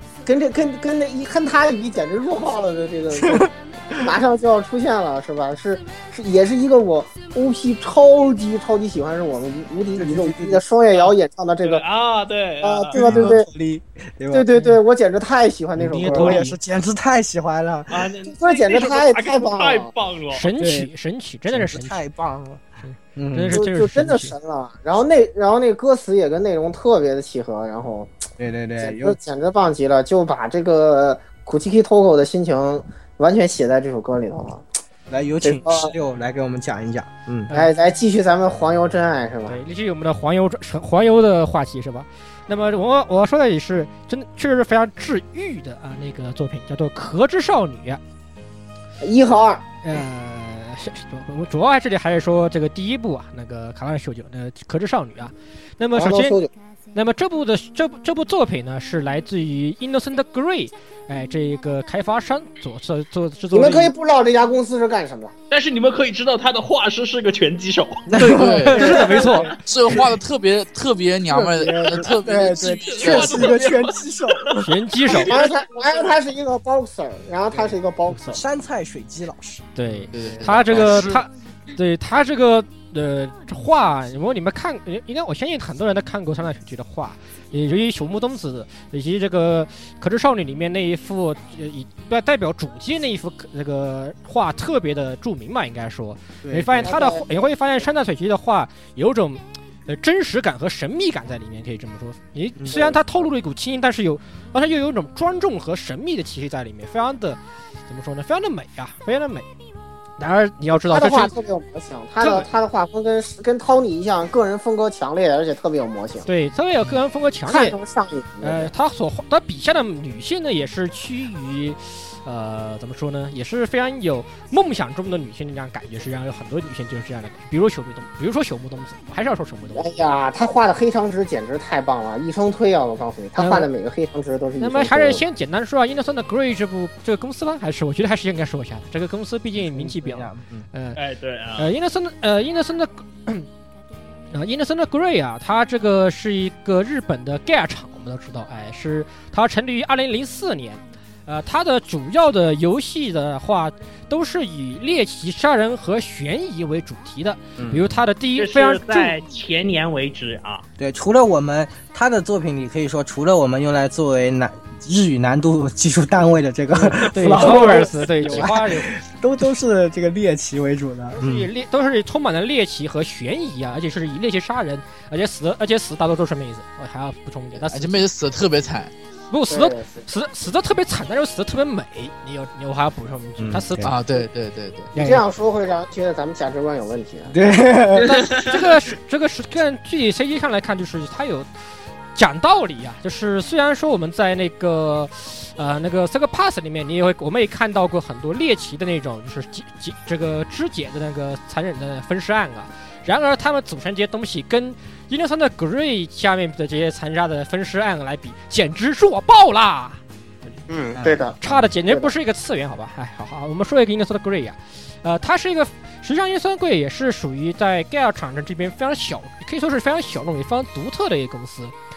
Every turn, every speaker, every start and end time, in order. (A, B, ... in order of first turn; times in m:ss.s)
0:00.2-0:03.5 A
0:03.1-0:04.0 B
0:04.0-0:11.8 A
0:10.0-0:10.6 B
0:10.9-0:13.0 C
0:12.6-0:13.5 A
0:12.9-0:14.5 B
0:14.3-0:16.4 A
0:15.8-0:16.6 D
0:15.8-0:18.1 B
0:17.9-0:20.5 C
0:18.3-0:19.9 A
0:20.3-0:22.0 D
0:20.6-0:20.9 B
0:21.5-0:22.6 B
0:22.8-0:24.4 D
0:23.1-0:23.6 B
0:23.5-0:28.2 A
0:28.4-0:29.2 B
0:28.8-0:34.6 A
0:35.1-0:37.5 B
0:35.4-0:35.9 A
0:37.5-0:39.6 A
0:39.5-0:48.0 D
0:49.0-0:49.6 A
0:49.8-0:56.4 D
0:55.9-0:56.5 A
0:56.9-1:03.9 D
1:03.5-1:05.3 A
1:05.5-1:08.0 C
1:08.1-1:08.8 B
1:08.2-1:09.5 D
1:08.3-1:13.7 E
1:11.3-1:13.2 A
1:12.9-1:14.5 C
1:13.0-1:14.6 B
1:14.6-1:15.4 D
1:15.1-1:18.4 A
1:15.1-1:15.4 C
1:18.3-1:21.2 B
1:19.7-1:49.5 D
1:20.1-1:21.2 E
1:36.4-1:37.0 B
1:36.8-1:37.2 A
1:42.7-1:43.3 A
1:50.2-1:51.3 D
1:50.9-1:56.3 A
1:52.2-1:52.5 D
1:56.2-1:57.8 D
1:57.4-1:58.7 A
1:58.4-2:09.9 D
2:09.8-2:15.2 A
2:13.4-2:13.7 D
2:14.6-2:21.0 D
2:19.6-2:20.7 B
2:21.0-2:21.7 C
2:21.6-2:23.5 D
2:24.3-2:39.2 D
2:37.6-2:38.0 B
2:38.4-2:40.6 C
2:40.8-2:51.5 B
2:47.0-2:48.9 D
2:51.1-2:58.0 D
2:57.7-2:58.9 E
2:59.3-3:04.2 D
2:59.5-3:00.0 A
3:03.4-3:03.9 B
3:03.8-3:04.9 E
3:04.9-3:05.2 D
3:04.9-3:07.3 A
3:07.3-3:08.5 B
3:08.0-3:11.5 D
3:12.2-3:30.0 D
3:30.7-3:31.3 A
3:31.0-3:31.6 B
3:31.4-3:41.7 D